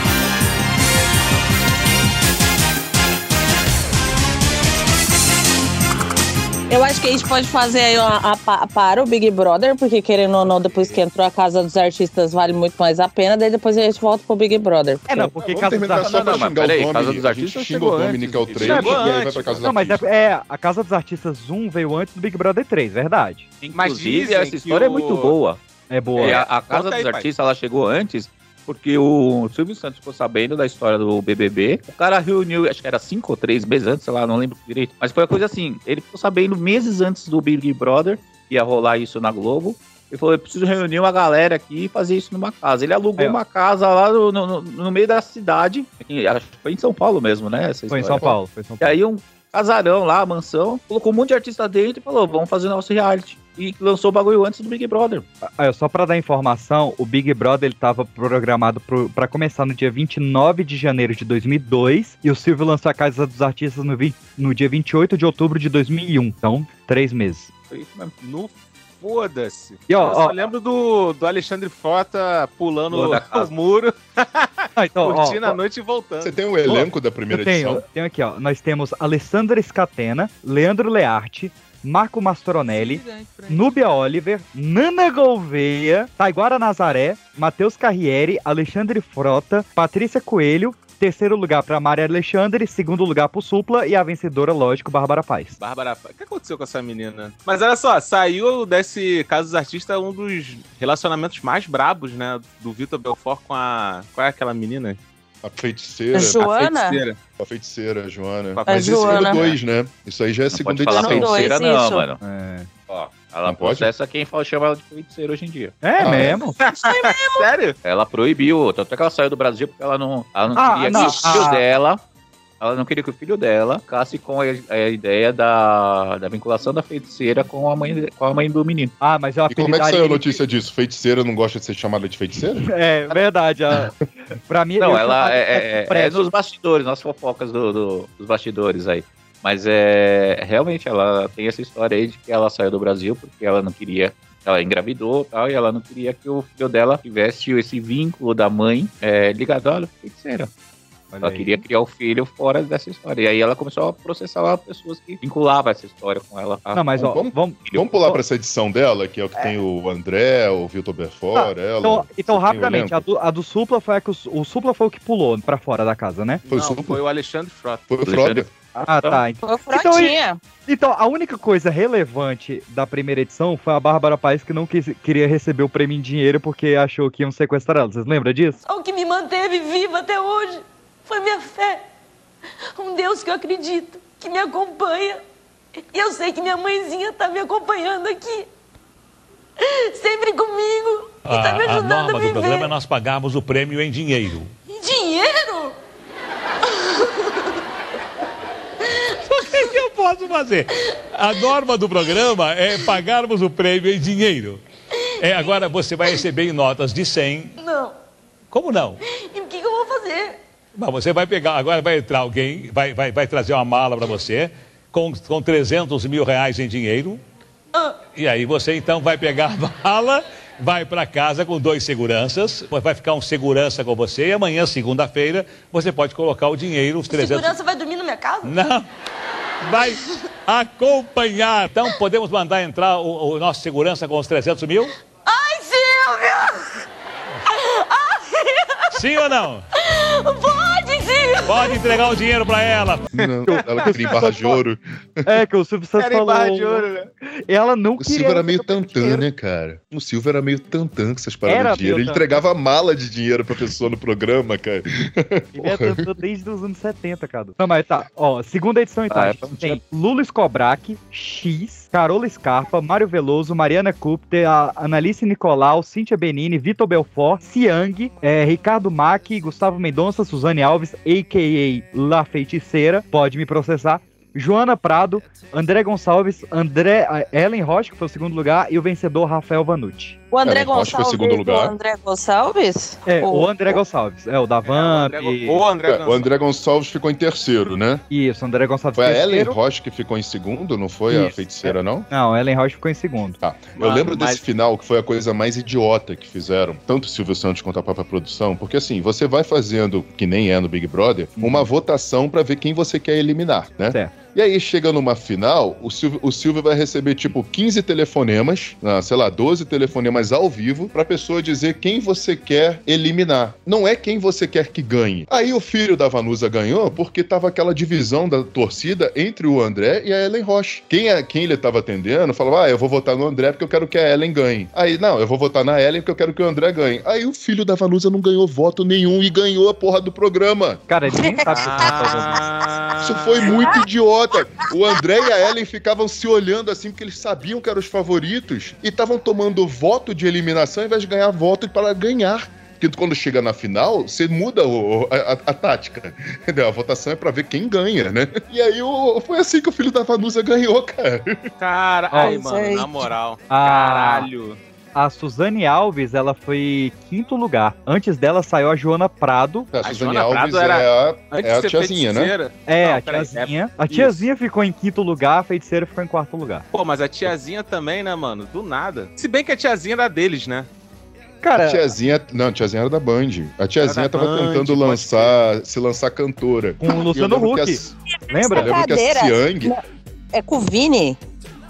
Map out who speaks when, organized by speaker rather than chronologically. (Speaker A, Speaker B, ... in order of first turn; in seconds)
Speaker A: 6.7-15.1, 106.1-107.0, 108.7-109.4, 110.9-112.0, 116.8-117.5, 120.9-121.4, 169.4-170.4, 280.3-283.8, 331.2-332.1, 333.5-333.8, 352.2-352.9, 378.3-379.8, 380.3-381.2
Speaker B: 15.1-16.5, 18.6-19.0, 19.6-23.5, 25.9-26.4, 47.9-49.0, 55.4-67.5, 69.9-70.3, 74.8-75.6, 76.7-95.6, 112.2-112.7, 115.8-116.6, 120.5-121.6, 129.0-130.4, 132.7-133.9, 134.5-136.3, 151.1-151.6, 156.7-158.2, 161.3-166.4, 168.8-170.1, 170.7-178.6, 243.5-244.6, 245.2-246.8, 247.5-249.2, 251.5-252.3, 255.5-280.2, 283.1-285.6, 288.1-289.6, 291.1-293.4, 301.4-301.7, 330.9-332.4, 353.5-354.3, 354.9-359.7, 362.7-366.6, 371.4-371.9, 376.8-377.8, 378.3-378.8
Speaker C: 15.2-20.0, 76.2-77.8, 105.4-106.5, 107.4-111.5, 113.5-113.9, 116.0-116.4, 129.5-132.6, 157.0-163.0, 166.5-167.0, 167.9-168.5, 243.1-245.2, 248.0-256.1, 280.4-281.8, 285.9-288.0, 288.9-292.1, 293.4-330.8, 333.0-351.4, 359.7-362.3, 371.5-377.9, 378.5-379.7
Speaker D: 16.0-19.0, 23.6-25.6, 26.1-55.2, 67.7-68.1, 72.9-73.5, 110.5-112.2, 112.9-115.8, 117.8-122.0, 122.6-128.9, 134.8-150.5, 151.2-156.9, 168.0-168.5, 259.1-259.8
Speaker E: 18.6-19.6, 23.7-25.3, 26.2-27.3, 68.2-76.3, 82.7-83.8, 95.6-105.0, 106.4-107.2, 108.5-109.6, 116.6-117.8, 166.4-167.8, 246.0-247.1, 284.6-286.3, 293.8-294.4, 331.5-333.6, 351.6-354.6, 359.8-364.2, 366.7-370.7, 373.8-375.4
Speaker F: 178.6-181.8, 182.8-185.2, 185.9-188.5, 189.6-192.7, 194.7-195.8, 196.7-197.1, 207.6-207.9, 209.1-210.4, 227.1-228.6, 235.2-236.7, 237.5-239.0, 239.9-242.0
Speaker G: 191.2-194.5, 199.3-204.6, 205.2-207.6, 208.5-209.0, 210.8-217.2, 218.1-227.6, 228.4-228.9, 229.6-234.9, 238.9-239.6, 241.4-243.1